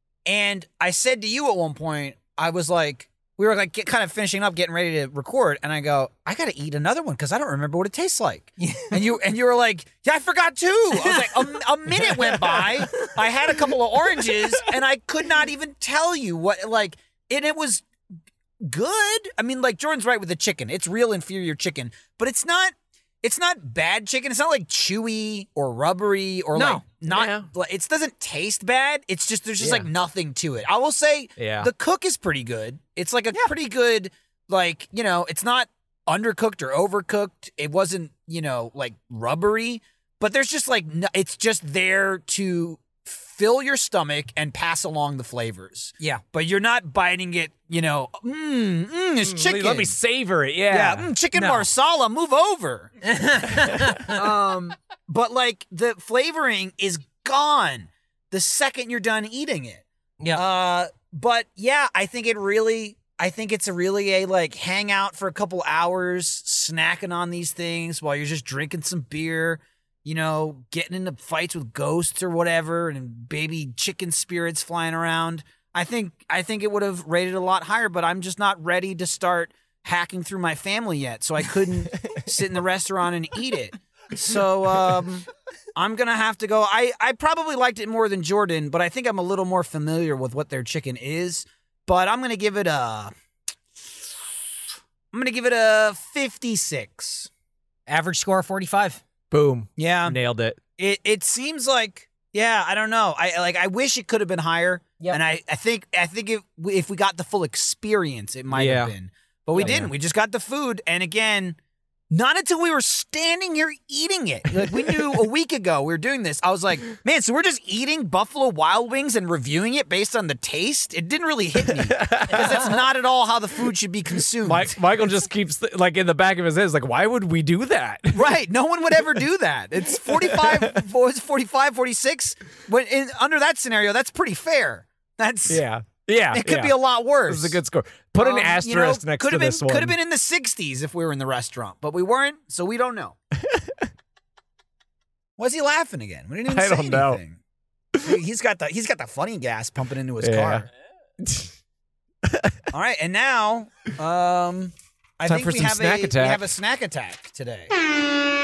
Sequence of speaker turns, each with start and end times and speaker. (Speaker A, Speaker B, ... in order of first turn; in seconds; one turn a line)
Speaker A: 0.2-17.9
Speaker B: 8.6-9.0
Speaker B: 10.9-11.5
Speaker A: 18.6-49.9
Speaker B: 26.5-26.8
Speaker C: 27.1-27.5
Speaker C: 29.6-29.9
Speaker C: 31.4-31.7
Speaker C: 49.2-51.1
Speaker A: 50.7-52.9
Speaker B: 51.3-51.7
Speaker B: 53.0-54.2
Speaker A: 54.1-93.1
Speaker A: 95.1-97.3
Speaker B: 97.9-99.0
Speaker C: 99.3-100.6
Speaker A: 99.8-100.2
Speaker A: 100.8-111.6
Speaker C: 108.5-108.9
Speaker C: 109.6-109.9
Speaker A: 112.1-124.8
Speaker C: 121.7-122.6
Speaker C: 124.4-128.2
Speaker A: 128.1-135.6
Speaker C: 130.1-130.8
Speaker C: 135.5-139.9
Speaker A: 136.3-137.6
Speaker A: 138.2-143.2
Speaker C: 143.3-143.8
Speaker A: 145.4-147.4
Speaker C: 146.5-147.2
Speaker A: 148.0-150.7
Speaker C: 150.2-150.7
Speaker C: 151.2-151.5
Speaker C: 152.2-152.6
Speaker A: 152.7-157.7
Speaker C: 155.2-156.4